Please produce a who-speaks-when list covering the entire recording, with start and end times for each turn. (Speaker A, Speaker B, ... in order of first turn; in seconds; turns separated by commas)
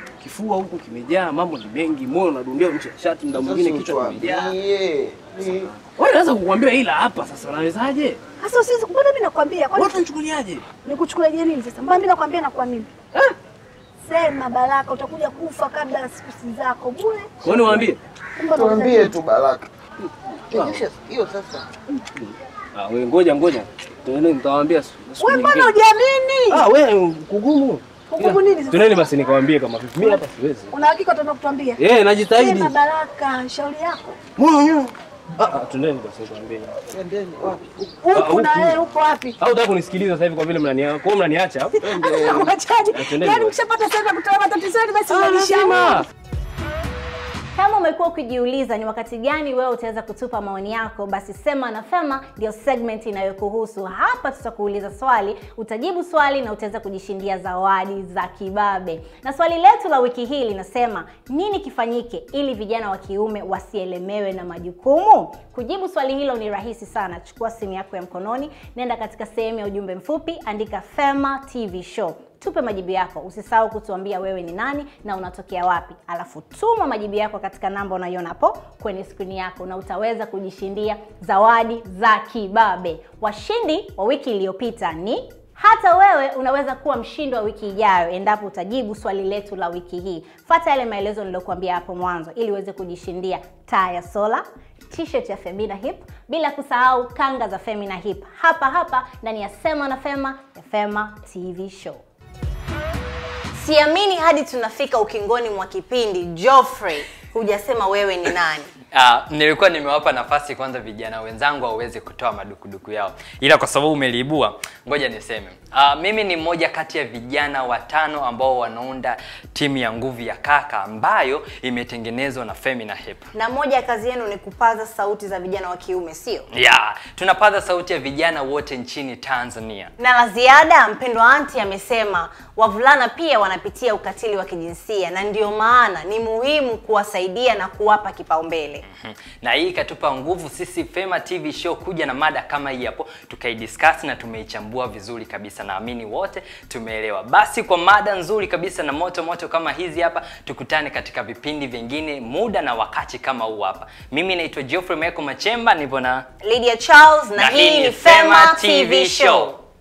Speaker A: 0.2-4.5, Speaker B: 3.3-5.7, Speaker A: 5.5-8.2, Speaker C: 8.4-10.0, Speaker A: 9.8-10.7, Speaker C: 10.8-12.9, Speaker C: 14.1-17.5, Speaker A: 17.4-18.0, Speaker C: 18.4-19.1, Speaker B: 18.6-19.7, Speaker A: 20.1-20.8, Speaker B: 20.5-21.6, Speaker A: 22.1-25.7, Speaker C: 25.2-26.6, Speaker A: 26.5-30.7, Speaker C: 28.1-29.1, Speaker C: 30.7-31.8, Speaker A: 31.8-32.7, Speaker C: 32.3-34.2, Speaker A: 34.4-36.8, Speaker B: 36.9-37.6, Speaker C: 38.0-39.4, Speaker A: 38.1-38.8, Speaker A: 39.4-43.6, Speaker C: 41.8-46.0, Speaker A: 45.1-46.0, Speaker D: 47.6-102.0, Speaker D: 103.5-108.7, Speaker E: 108.9-123.3, Speaker D: 123.3-126.5, Speaker E: 126.5-129.9, Speaker D: 130.0-138.8, Speaker E: 138.9-156.3, Speaker D: 156.4-159.6, Speaker E: 157.4-159.6